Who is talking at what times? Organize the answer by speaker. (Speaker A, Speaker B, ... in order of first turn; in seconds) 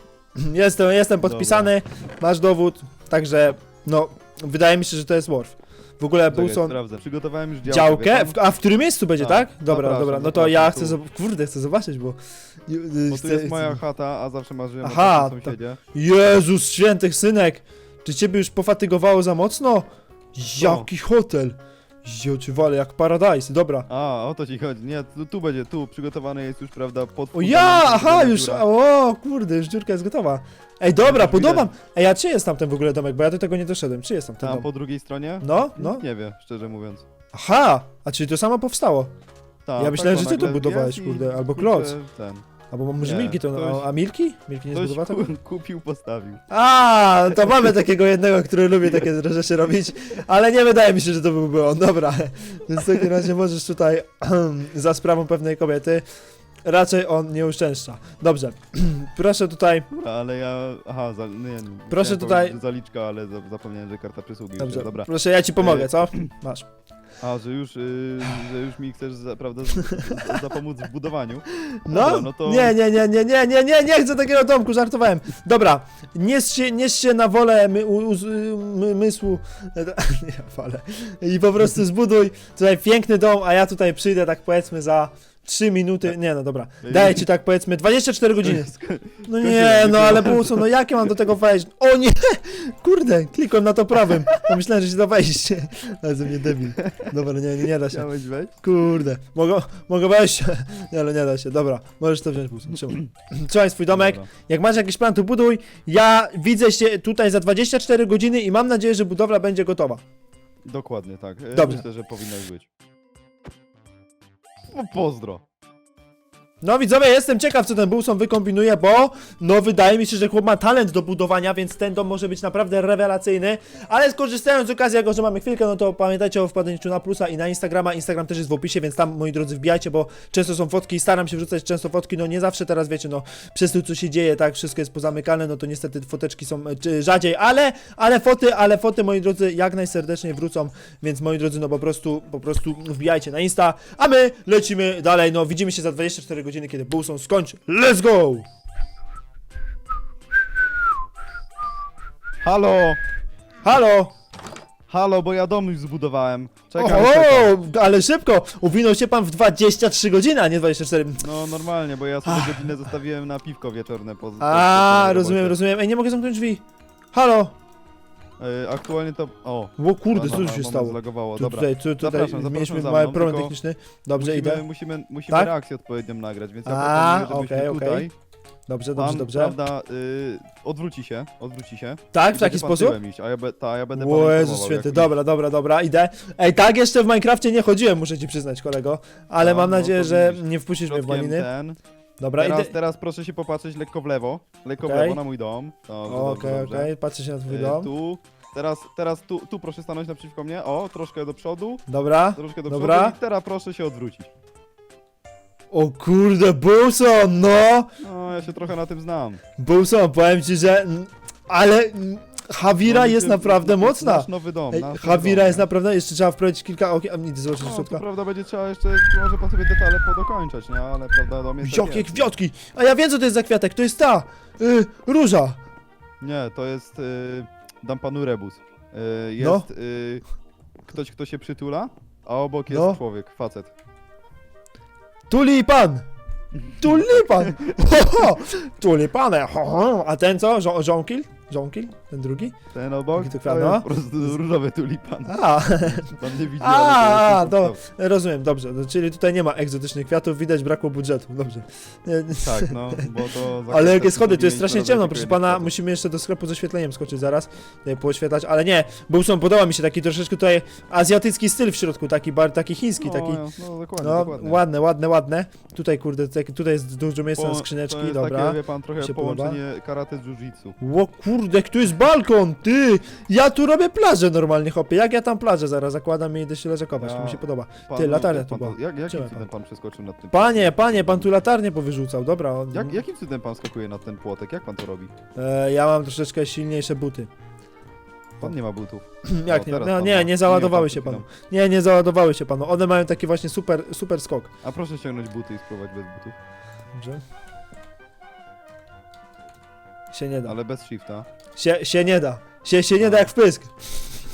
Speaker A: 0.3-6.7, 7.7-13.8, 14.8-23.9, 27.3-34.7, 35.4-36.0, 37.3-39.1, 39.8-42.0, 42.7-45.3, 46.5-56.0, 56.6-59.9, 61.9-62.6, 64.6-66.7, 71.7-88.7, 89.3-98.1, 98.6-110.0, 111.5-111.8, 116.6-148.4, 153.6-154.1, 156.8-161.2, 162.2-162.7, 164.4-166.6, 167.1-167.5, 169.8-174.6, 176.7-178.1, 178.7-179.6, 182.1-183.0, 183.9-191.5, 192.2-192.7, 194.8-195.2, 196.1-197.9, 201.9-203.2, 205.7-207.9, 209.6-218.0, 221.6-225.6, 229.4-229.6, 232.7-233.0, 235.3-236.1, 236.8-242.5, 243.2-243.8, 245.3-253.1, 253.7-263.4, 264.0-269.6, 270.8-279.4, 280.3-283.0, 285.4-287.3, 289.2-294.5, 296.9-297.2, 300.1-300.5, 301.6-303.7
Speaker B: 1.2-1.7, 6.3-8.3, 9.2-11.0, 13.1-15.8, 20.6-20.9, 23.9-28.6, 31.0-31.7, 34.4-37.0, 39.6-42.5, 43.0-43.9, 44.7-46.4, 59.9-66.3, 67.2-72.8, 86.8-87.2, 88.4-90.8, 94.1-94.4, 96.8-97.1, 97.8-98.6, 103.9-104.3, 110.6-112.7, 114.7-115.4, 152.4-153.0, 154.9-157.6, 161.2-165.6, 168.4-173.5, 174.2-178.1, 178.9-185.1, 189.4-191.8, 192.4-196.9, 197.5-201.8, 202.3-204.3, 208.0-209.4, 212.8-215.7, 217.6-222.3, 226.2-230.2, 230.8-233.7, 236.6-237.7, 242.7-247.8, 252.3-255.7, 263.0-264.6, 267.3-270.8, 277.0-281.3, 282.7-285.1, 288.4-291.2, 294.6-296.4, 300.4-301.3, 303.0-303.3